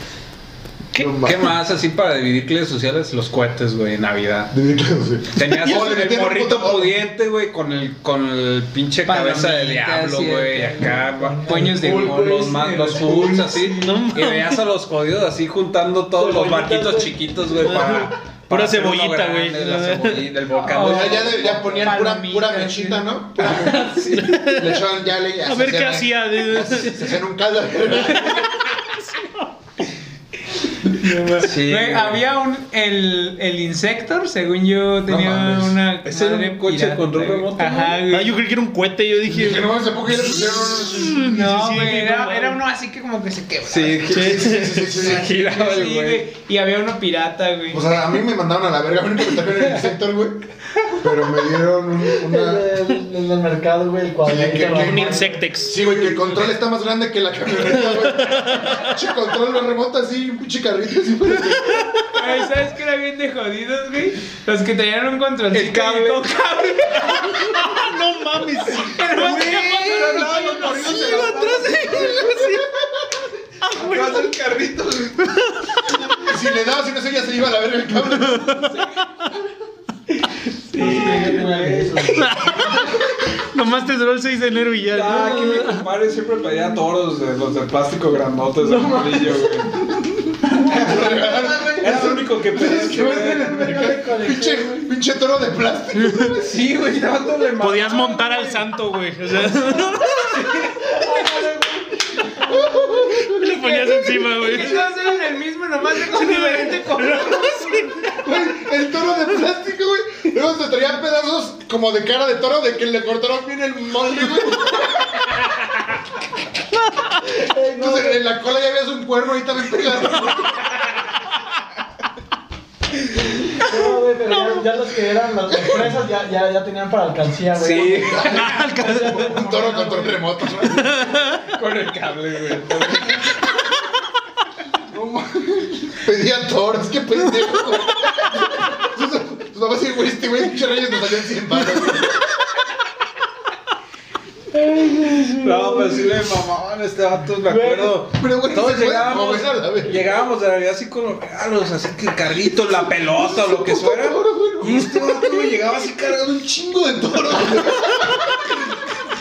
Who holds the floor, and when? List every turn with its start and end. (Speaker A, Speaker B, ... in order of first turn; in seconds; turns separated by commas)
Speaker A: 0.9-1.6, Speaker B: 1.0-4.5, Speaker A: 4.5-7.0, Speaker B: 5.3-21.8, Speaker C: 9.1-13.7, Speaker D: 11.1-13.3, Speaker E: 13.5-14.6, Speaker D: 16.1-17.1, Speaker E: 17.6-20.3, Speaker C: 20.5-23.0, Speaker A: 20.7-28.6, Speaker E: 23.4-24.8, Speaker B: 23.8-24.3, Speaker E: 25.4-27.2, Speaker E: 27.9-29.5, Speaker C: 30.9-38.3, Speaker B: 31.3-32.2, Speaker A: 35.1-35.8, Speaker B: 36.0-38.0, Speaker E: 38.0-42.6, Speaker A: 39.3-41.3, Speaker C: 41.2-47.8, Speaker B: 43.6-46.2, Speaker A: 44.1-45.3, Speaker E: 44.1-44.9, Speaker A: 47.7-50.5, Speaker A: 51.0-52.7, Speaker D: 52.1-55.4, Speaker A: 54.2-62.0, Speaker E: 54.6-55.8, Speaker E: 57.6-59.0, Speaker E: 61.6-62.3, Speaker C: 62.1-67.6, Speaker B: 65.5-67.3, Speaker E: 67.3-69.2, Speaker C: 68.8-70.6, Speaker B: 68.9-72.3, Speaker E: 70.0-72.7, Speaker A: 70.8-71.4, Speaker A: 71.9-72.6, Speaker E: 73.7-74.3, Speaker B: 73.7-75.2, Speaker E: 75.2-76.2, Speaker A: 76.1-78.7, Speaker E: 78.2-78.8, Speaker B: 80.7-81.9, Speaker D: 80.7-82.5, Speaker E: 82.1-85.8, Speaker B: 84.8-89.8, Speaker E: 88.8-89.4, Speaker B: 90.4-91.1, Speaker A: 90.6-96.6, Speaker D: 90.7-94.9, Speaker B: 91.8-93.7, Speaker B: 96.4-98.7, Speaker E: 97.6-100.7, Speaker B: 100.2-102.3, Speaker D: 101.0-101.8, Speaker A: 102.4-104.1, Speaker E: 103.2-104.9, Speaker C: 104.3-107.8, Speaker E: 106.0-108.2, Speaker A: 108.0-115.3, Speaker D: 117.3-118.2, Speaker A: 117.8-120.7, Speaker D: 123.6-130.5, Speaker E: 124.3-124.6, Speaker B: 127.5-128.6, Speaker A: 127.9-130.9, Speaker E: 128.1-129.3, Speaker E: 130.6-131.4, Speaker B: 131.5-133.3, Speaker A: 134.9-142.2, Speaker E: 144.5-145.3, Speaker B: 145.3-156.6, Speaker A: 148.0-150.1, Speaker A: 153.1-155.7, Speaker A: 156.3-158.6